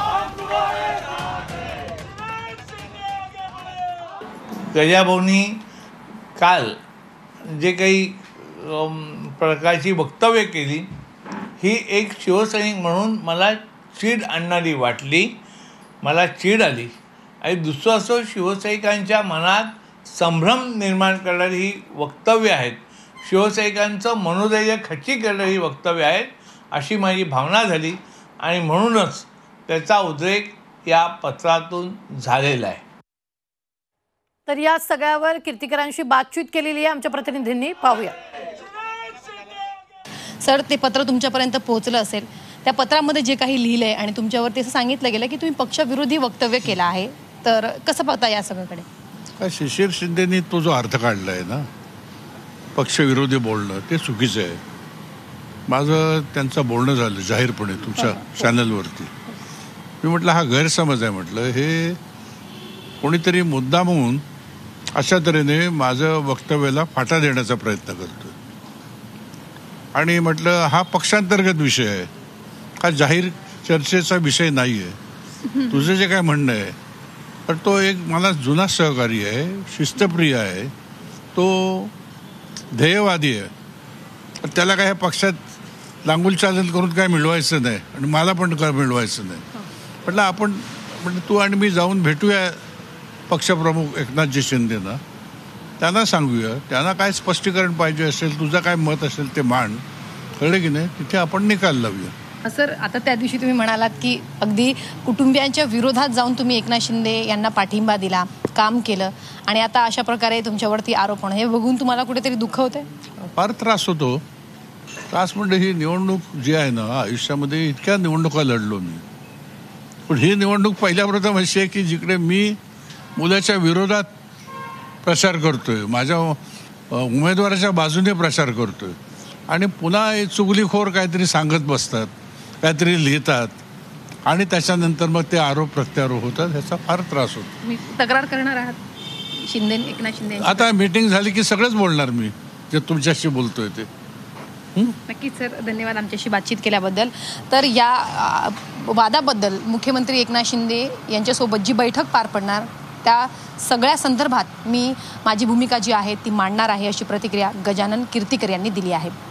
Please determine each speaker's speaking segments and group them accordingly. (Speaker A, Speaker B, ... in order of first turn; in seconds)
Speaker A: 4.7-5.6, 6.4-6.8, 7.4-10.9, 11.6-15.4, 16.0-32.8
Speaker B: 34.5-38.1
Speaker C: 40.4-48.9, 102.5-112.9, 137.6-138.8, 139.4-140.7, 145.0-159.1
Speaker D: 49.4-51.7, 52.8-54.6, 55.7-59.1, 60.0-62.0, 63.0-64.2, 65.0-68.3, 70.0-72.1, 72.8-75.0, 75.6-76.8, 77.5-80.7, 81.3-81.9, 82.7-83.5, 84.4-85.4, 86.0-89.4, 90.0-92.6, 93.3-95.0, 95.8-99.8, 100.4-102.1, 113.2-114.2, 115.1-119.0, 120.1-122.6, 123.2-124.1, 125.0-129.0, 129.5-132.1, 132.6-133.6, 134.3-137.6, 140.4-143.9, 144.8-145.0